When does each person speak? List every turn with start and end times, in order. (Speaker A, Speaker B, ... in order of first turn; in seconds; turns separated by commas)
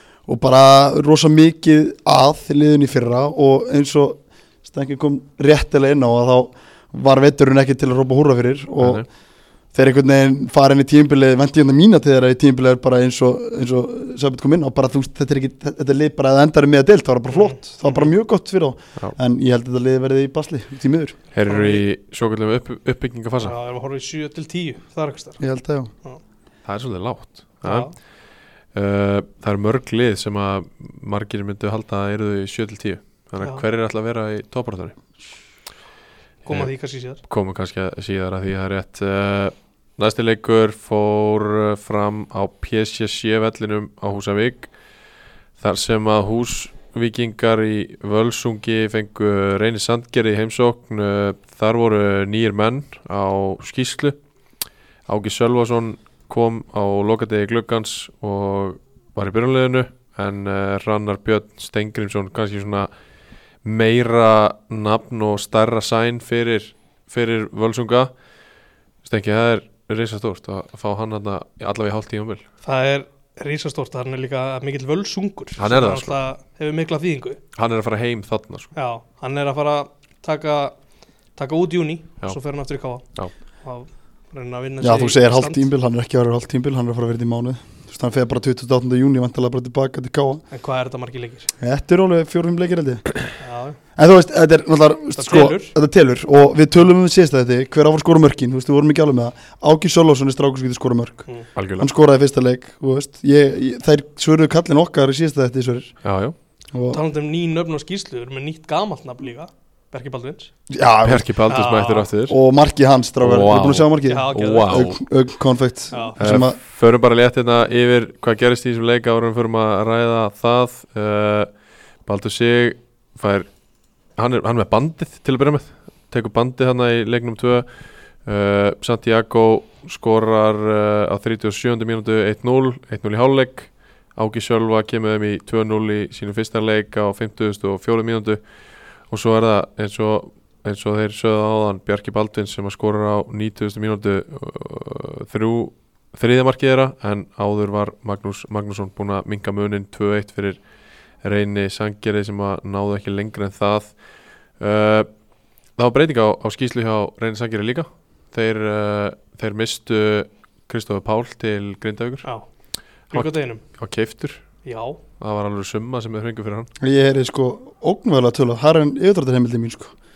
Speaker A: 0.2-9.0, Speaker B: 8.8-9.1, Speaker A: 9.7-21.2, Speaker C: 17.3-18.1, Speaker B: 21.3-23.5, Speaker C: 21.4-21.8, Speaker C: 23.4-25.4, Speaker A: 25.4-25.9, Speaker B: 26.6-28.0, Speaker C: 27.6-27.9, Speaker B: 28.7-35.0, Speaker C: 33.4-33.6, Speaker C: 36.4-37.2, Speaker B: 37.2-44.7, Speaker B: 45.6-54.2, Speaker B: 55.1-62.9, Speaker B: 63.6-68.1, Speaker B: 69.0-72.4, Speaker C: 72.6-77.4, Speaker B: 75.6-76.2, Speaker B: 77.5-78.7, Speaker C: 78.7-80.8, Speaker C: 81.3-83.0, Speaker C: 83.6-85.6, Speaker A: 84.8-90.4, Speaker C: 90.5-91.5, Speaker A: 91.6-93.1, Speaker C: 93.4-93.8, Speaker A: 94.0-101.2, Speaker C: 95.2-95.7, Speaker B: 101.5-101.9, Speaker A: 101.8-106.0, Speaker B: 106.0-106.3, Speaker A: 106.7-107.0, Speaker C: 106.9-110.5, Speaker A: 110.7-111.3, Speaker B: 111.0-112.4, Speaker C: 111.5-112.1, Speaker A: 112.3-116.6, Speaker B: 113.2-115.0, Speaker C: 114.0-114.8, Speaker C: 115.9-116.2, Speaker B: 116.2-121.5, Speaker B: 122.0-123.5, Speaker B: 124.2-127.7, Speaker B: 128.2-138.4, Speaker B: 139.1-150.6, Speaker B: 151.2-154.0, Speaker B: 154.6-155.1, Speaker B: 155.8-162.2, Speaker C: 163.1-163.6, Speaker B: 163.1-164.4, Speaker C: 164.6-165.0, Speaker B: 165.2-166.7, Speaker A: 166.8-169.9